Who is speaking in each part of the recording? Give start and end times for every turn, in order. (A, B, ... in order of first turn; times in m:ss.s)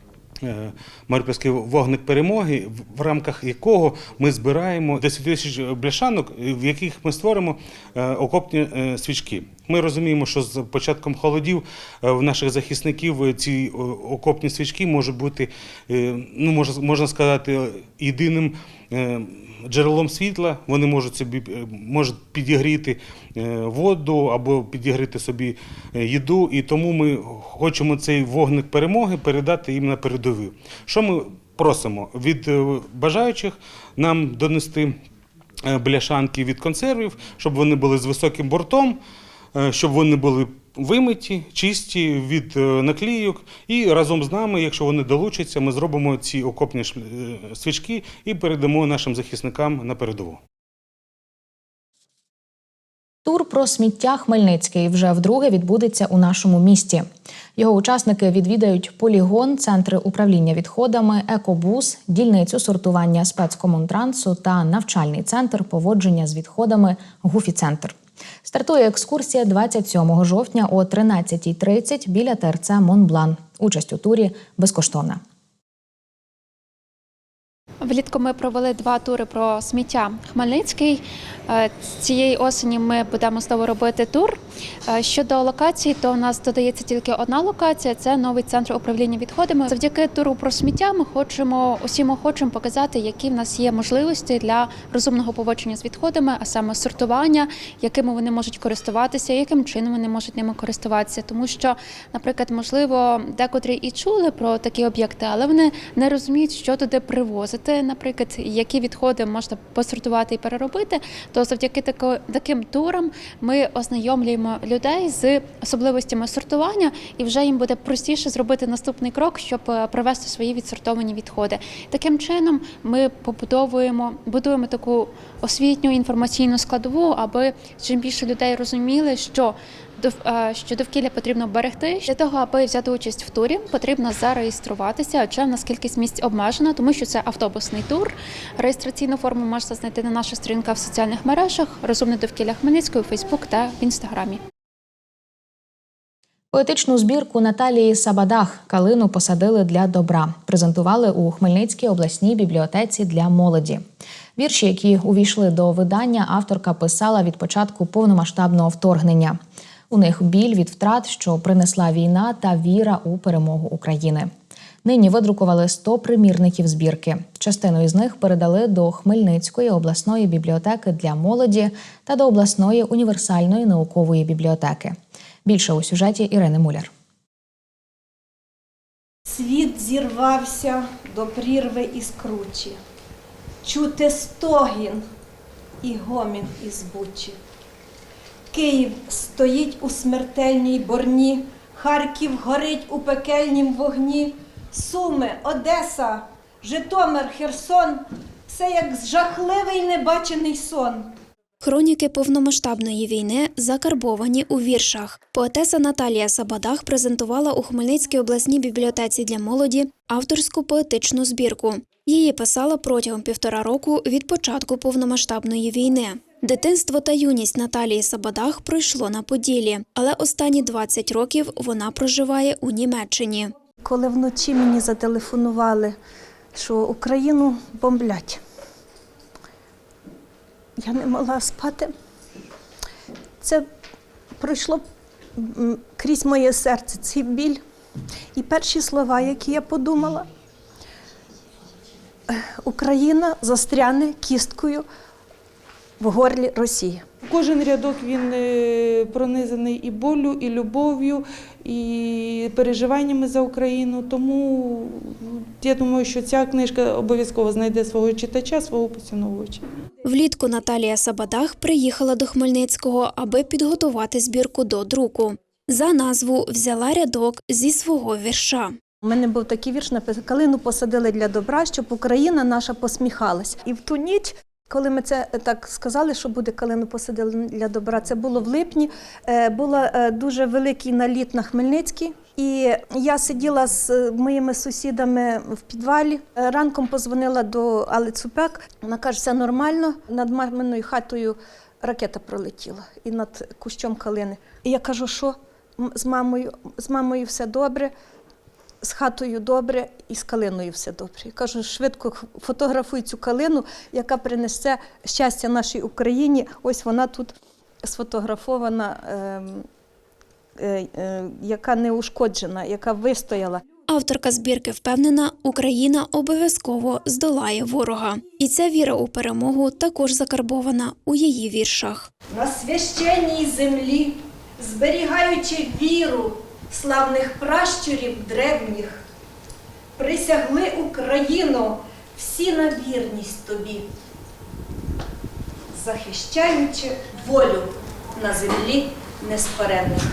0:00.4-0:35.0 A
0:35.7-0:39.0 A
0:39.6-0:50.4 A
0:53.3-0:57.1 B
0:57.6-1:15.2 B
1:17.8-2:24.4 C
2:26.5-2:33.8 B
2:34.4-2:39.4 B
2:39.9-2:44.3 B
2:44.8-2:56.9 B
2:59.3-3:02.8 D
2:59.8-3:02.7 E
3:03.6-3:05.0 D
3:03.7-3:04.9 E
3:05.8-3:07.4 D
3:05.8-3:07.3 E
3:08.5-3:21.0 D
3:08.5-3:11.1 E
3:11.9-3:12.2 E
3:12.9-3:13.3 E
3:21.6-3:43.5 F
3:43.9-3:45.9 D
3:43.9-3:45.8 E
3:46.6-3:48.4 D
3:46.6-3:48.2 E
3:50.8-3:51.9 D
3:51.2-3:51.8 E
3:54.4-3:54.8 D
3:54.4-3:54.8 E
3:55.4-3:57.6 D
3:56.0-3:57.4 E
3:58.4-4:00.2 D
3:58.4-4:00.0 E
4:02.3-4:04.8 D
4:06.0-4:07.0 D
4:06.4-4:06.8 E
4:07.3-4:14.5 E
4:15.6-4:19.6 E
4:20.0-4:28.8 F
4:29.0-4:57.9 D
4:29.6-4:34.1 E
4:34.8-4:38.8 E
4:39.4-4:42.0 E
4:43.1-4:43.9 E
4:44.6-4:45.0 E
4:46.7-4:48.2 E
4:49.0-4:49.6 E
4:50.4-4:51.3 E
4:51.8-4:54.9 E
4:56.8-4:57.8 E
4:58.8-5:07.3 D
4:58.8-5:07.3 E
5:07.9-5:09.6 D
5:07.9-5:08.8 E
5:10.6-5:13.6 D
5:11.4-5:13.4 E
5:13.9-5:22.1 F
5:22.3-5:29.0 D
5:30.0-5:33.8 D
5:35.7-5:40.0 D